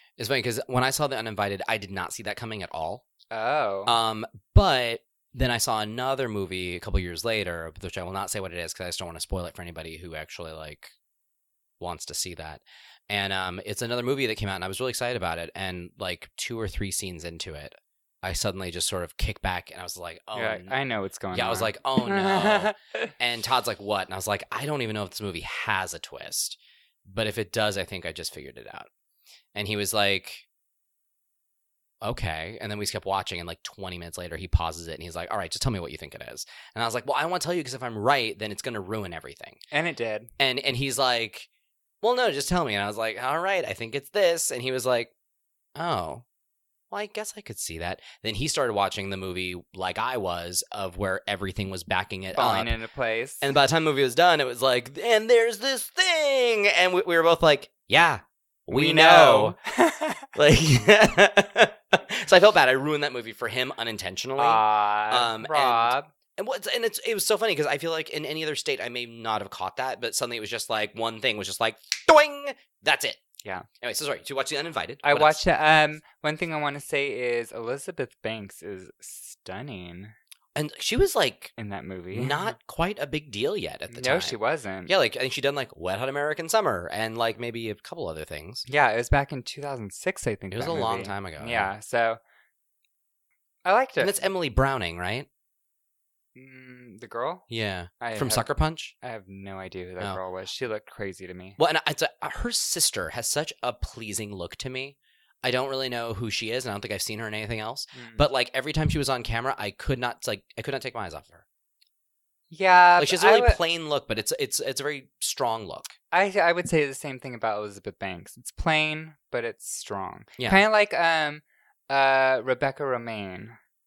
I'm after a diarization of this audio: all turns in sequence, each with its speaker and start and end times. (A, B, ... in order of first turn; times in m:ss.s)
0:00.2-0:03.0 A
0:03.3-0:04.0 B
0:03.8-0:10.9 A
0:11.8-0:20.7 A
0:20.3-0:23.1 B
0:21.3-0:28.9 A
0:29.5-0:30.4 A
0:32.0-0:39.6 A
0:39.7-0:40.3 B
0:40.4-0:41.5 A
0:42.0-0:45.1 A
0:45.8-0:46.2 A
0:46.9-0:52.7 A
0:52.3-0:53.5 B
0:53.4-0:59.6 A
0:58.7-1:00.3 B
1:00.3-1:13.2 A
1:04.4-1:06.1 B
1:13.8-1:15.4 A
1:15.0-1:20.1 B
1:20.5-1:21.5 A
1:21.6-1:22.6 B
1:22.1-1:28.6 A
1:23.9-1:24.9 B
1:28.7-1:32.2 B
1:30.5-1:31.7 A
1:33.6-1:34.3 B
1:34.0-1:35.3 A
1:36.3-1:37.4 B
1:37.5-1:38.9 A
1:38.0-1:41.6 B
1:41.6-1:51.4 A
1:47.9-1:48.2 B
1:52.5-1:53.6 B
1:53.0-1:55.9 A
1:56.1-2:03.6 B